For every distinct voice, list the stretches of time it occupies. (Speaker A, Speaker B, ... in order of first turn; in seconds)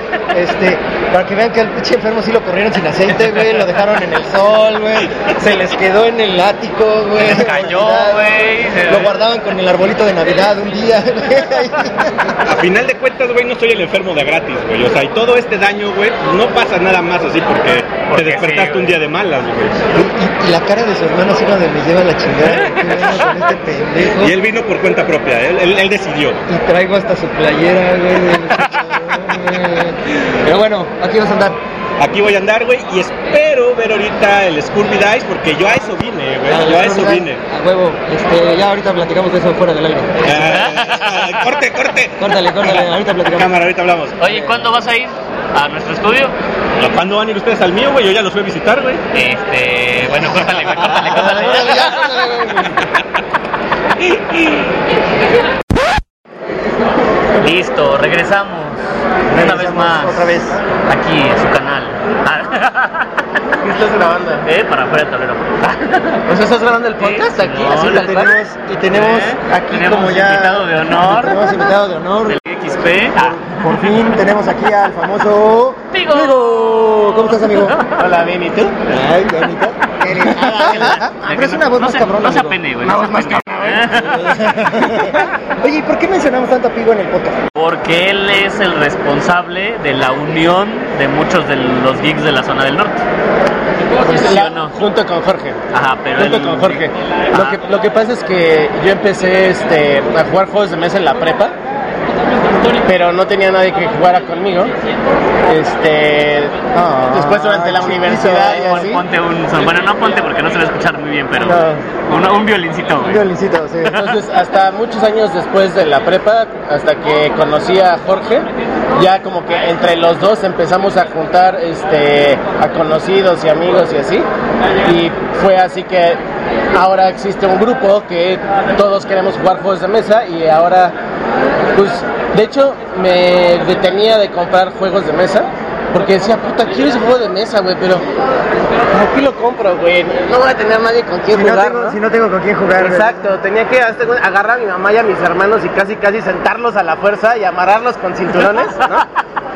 Speaker A: 0.3-12.1, 19.9-24.4, 26.5-31.6, 36.5-40.4, 42.2-43.5, 50.9-52.6, 59.3-60.6, 63.6-64.2, 67.8-77.8, 78.9-87.4, 106.7-109.0, 111.4-111.8, 113.0-114.1, 141.3-143.4
Speaker B: 7.2-9.1, 18.1-19.0, 40.3-41.6, 44.2-46.3, 49.1-51.9, 57.4-58.8, 59.3-60.3, 60.9-63.0, 64.5-66.2, 67.0-68.3, 68.9-71.7, 72.3-73.6, 75.9-77.8, 80.3-84.9, 87.5-93.0, 94.0-94.7, 95.7-97.6, 108.0-113.2
Speaker C: 12.4-19.8, 24.2-26.4, 32.0-37.4, 40.2-44.2, 46.8-49.0
Speaker D: 63.6-64.4, 66.3-68.3, 78.0-78.8, 94.0-95.6, 96.1-101.5, 102.8-104.7, 105.5-106.5, 107.1-109.0, 113.9-124.3, 124.8-126.2, 126.7-131.0, 131.7-138.0, 138.9-142.0, 142.7-149.1